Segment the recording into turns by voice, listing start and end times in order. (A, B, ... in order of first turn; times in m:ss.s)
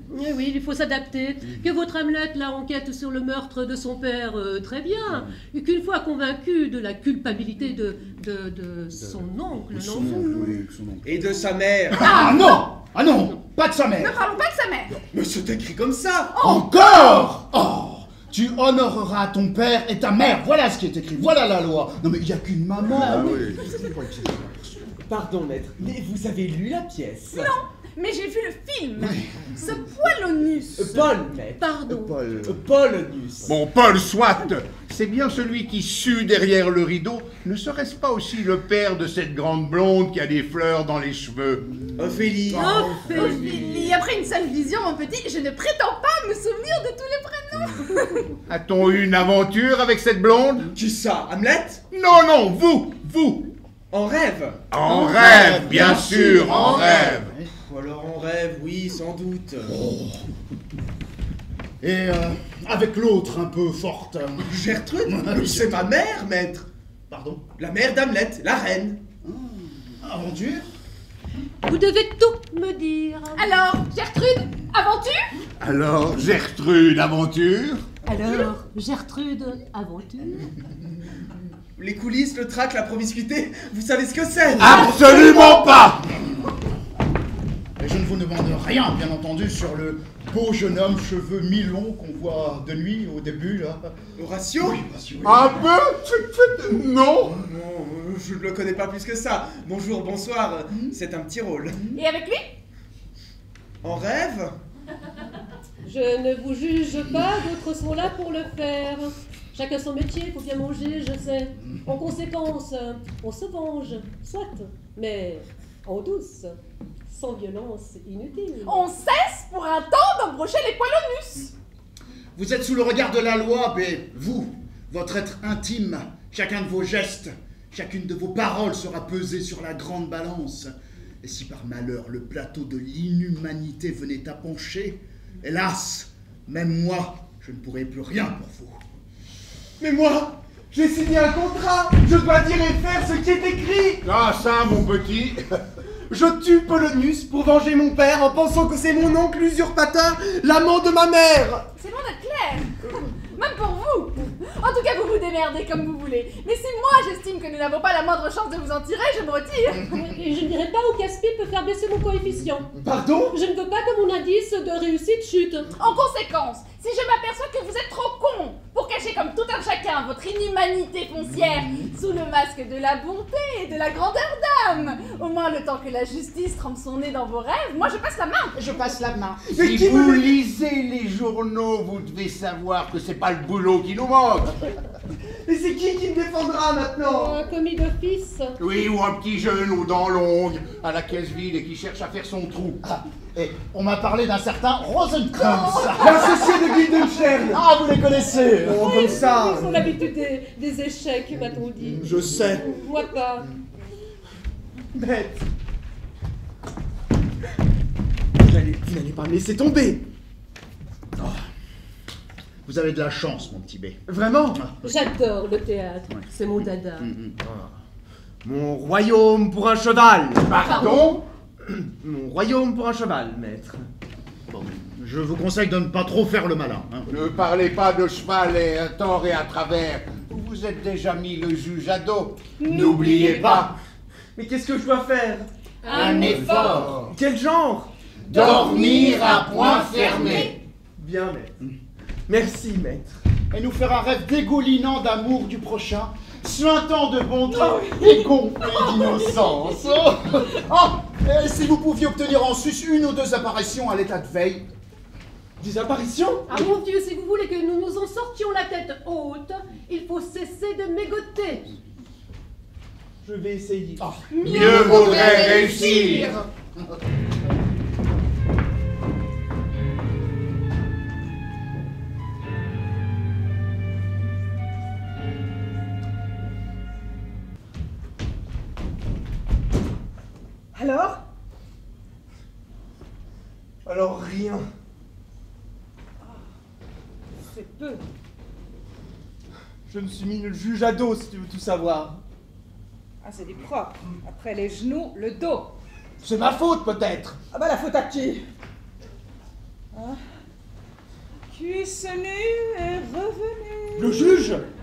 0:00.1-0:10.6 A
0:09.7-0:14.2 B
0:11.0-0:12.4 C
0:12.0-0:12.6 D
0:14.0-0:14.9 D
0:15.1-0:16.6 C
0:16.4-0:17.3 D
0:16.4-0:24.6 B
0:23.0-0:23.6 E
0:25.0-0:27.5 C
0:27.3-0:31.1 D
0:29.0-0:29.6 B
0:30.8-0:33.6 C
0:31.6-0:32.1 A
0:31.9-0:32.5 B
0:33.4-0:41.7 E
0:42.0-0:43.3 C
0:42.5-0:43.6 E
0:42.5-0:43.9 A
0:43.0-0:48.3 D
0:48.5-0:50.7 E
0:50.7-0:51.8 C
0:51.9-0:53.5 E
0:53.9-0:54.6 C
0:54.7-0:57.3 E
0:54.8-0:57.5 B
0:56.4-0:59.8 C
0:59.8-1:00.2 B
1:01.8-1:05.9 B
1:04.5-1:06.7 C
1:07.1-1:07.4 B
1:07.6-1:09.0 C
1:09.2-1:10.6 B
1:11.6-1:13.6 A
1:13.4-1:15.2 D
1:15.6-1:17.8 E
1:18.0-1:20.5 A
1:21.8-1:25.0 C
1:24.6-1:26.1 E
1:24.7-1:25.6 A
1:25.3-1:25.6 D
1:27.8-1:33.9 B
1:34.2-1:34.8 C
1:34.6-1:35.7 B
1:35.2-1:37.4 E
1:37.3-1:41.9 C
1:41.9-1:42.5 D
1:43.8-1:44.6 C
1:45.8-1:56.6 A
1:57.1-1:58.9 A
1:58.6-2:01.5 D
2:02.3-2:18.8 B
2:19.8-2:24.0 C
2:24.0-2:25.6 E
2:26.1-2:31.6 C
2:31.8-2:32.8 D
2:33.3-2:40.1 D
2:40.1-2:42.7 A
2:42.8-2:43.4 C
2:43.3-2:45.7 A
2:45.8-2:58.6 D
2:51.2-2:51.9 B
2:58.5-2:59.4 B
2:59.5-3:00.4 C
2:59.5-3:04.6 E
3:05.4-3:07.4 C
3:07.0-3:08.6 A
3:08.6-3:12.8 E
3:13.3-3:16.9 B
3:15.4-3:16.5 A
3:16.0-3:17.6 C
3:17.4-3:19.2 B
3:18.6-3:19.8 C
3:18.6-3:23.5 A
3:21.5-3:22.7 B
3:22.0-3:22.7 C
3:24.9-3:25.4 C
3:28.4-3:30.0 C
3:32.6-3:35.0 B
3:34.1-3:34.6 C
3:34.8-3:37.1 A
3:37.0-3:37.3 B
3:37.4-3:37.7 C
3:38.4-3:41.1 C
3:40.5-3:41.2 E
3:40.6-3:41.0 A
3:41.6-3:43.8 C
3:44.5-3:47.1 B
3:47.1-3:53.7 E
3:52.6-3:53.7 F
3:54.4-3:58.4 C
3:55.8-3:56.8 D
3:55.9-3:57.0 B
3:56.0-3:56.4 A
3:56.0-3:57.1 E
3:58.3-4:00.6 E
3:58.3-4:00.5 B
3:58.4-3:59.2 F
3:58.5-4:00.4 D
3:59.7-4:01.5 C
4:02.3-4:03.2 C
4:03.5-4:14.7 B
4:07.5-4:08.3 F
4:09.5-4:09.8 F
4:15.6-4:16.7 C
4:16.4-4:21.7 A
4:23.2-4:25.5 C
4:24.0-4:25.5 B
4:24.3-4:26.4 D
4:24.4-4:26.3 E
4:25.4-4:26.2 F
4:40.7-4:41.2 F
4:43.8-4:44.7 C
4:47.4-4:48.0 F
4:49.9-4:52.2 C
4:53.2-4:55.7 F
4:56.2-4:57.4 C
4:57.5-4:58.5 F
4:59.9-5:00.2 F
5:01.5-5:04.4 F
5:04.0-5:04.6 C